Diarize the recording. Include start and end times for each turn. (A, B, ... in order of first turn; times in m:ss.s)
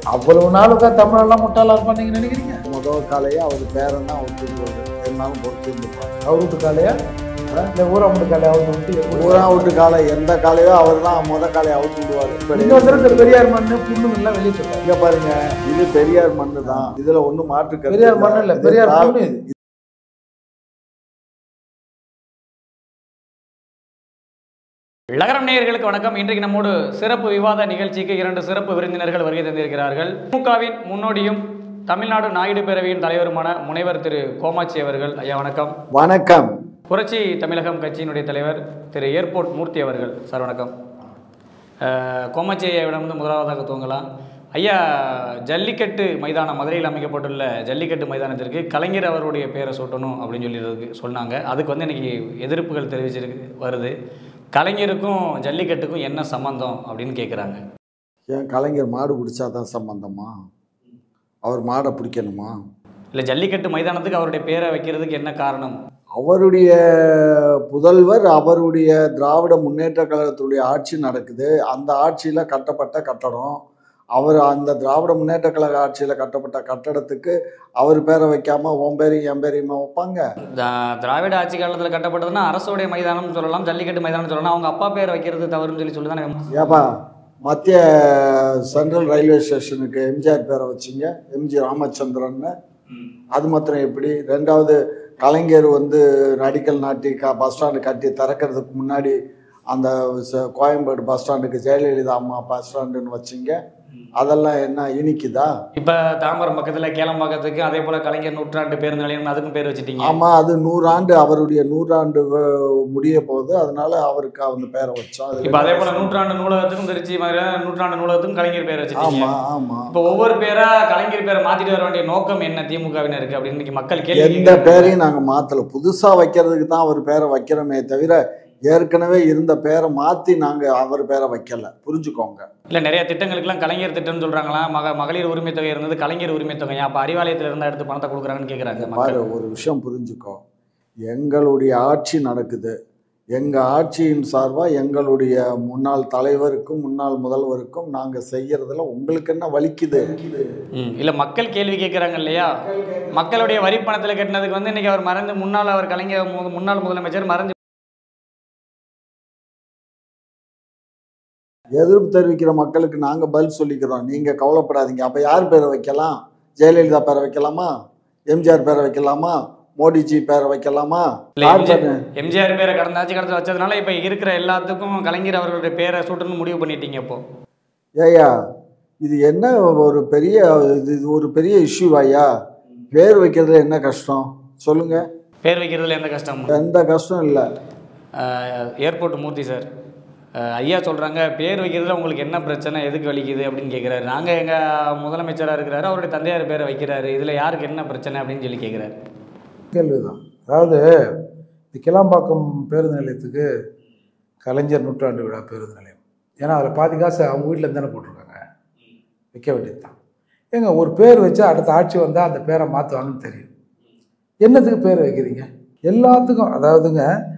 0:00.1-0:02.6 A
0:02.7-0:06.2 B
0:06.2-0:06.9 A
0:07.7-0:09.7 A
0:09.1-0:13.4 B
0:12.5-0:14.8 A
0:14.8-0:19.1 B
0:17.9-0:19.4 A
0:25.1-0:35.8 C
0:35.9-0:36.5 B
0:36.9-0:40.7 C
0:41.8-0:53.9 C
0:54.5-0:57.6 C
0:58.3-1:00.3 B
1:01.4-1:02.5 B
1:03.1-1:05.8 C
1:06.2-1:13.6 B
1:14.2-1:20.2 B
1:20.6-1:26.6 C
1:26.5-1:26.9 B
1:27.4-1:32.5 B
1:33.3-1:39.2 B
1:39.7-1:43.6 B
1:44.2-1:45.5 B
1:45.8-1:50.2 C
1:50.0-1:56.1 B
1:55.4-1:59.3 C
1:59.0-1:59.9 B
1:59.9-2:04.9 C
2:04.1-2:12.4 B
2:12.7-2:19.2 C
2:18.7-2:20.4 B
2:21.1-2:22.7 B
2:23.3-2:30.4 B
2:30.8-2:32.6 C
2:32.6-2:33.7 B
2:33.1-2:37.5 C
2:41.8-2:47.7 B
2:48.3-2:52.0 B
2:51.4-2:57.2 C
2:58.0-2:58.3 B
2:59.0-3:02.3 B
3:02.9-3:05.1 B
3:05.4-3:06.6 C
3:06.5-3:07.4 B
3:08.1-3:09.6 C
3:10.4-3:18.9 C
3:19.7-3:20.8 A
3:21.7-3:23.4 A
3:24.4-3:28.4 A
3:29.3-3:29.9 A
3:30.5-3:33.5 A
3:34.4-3:37.0 A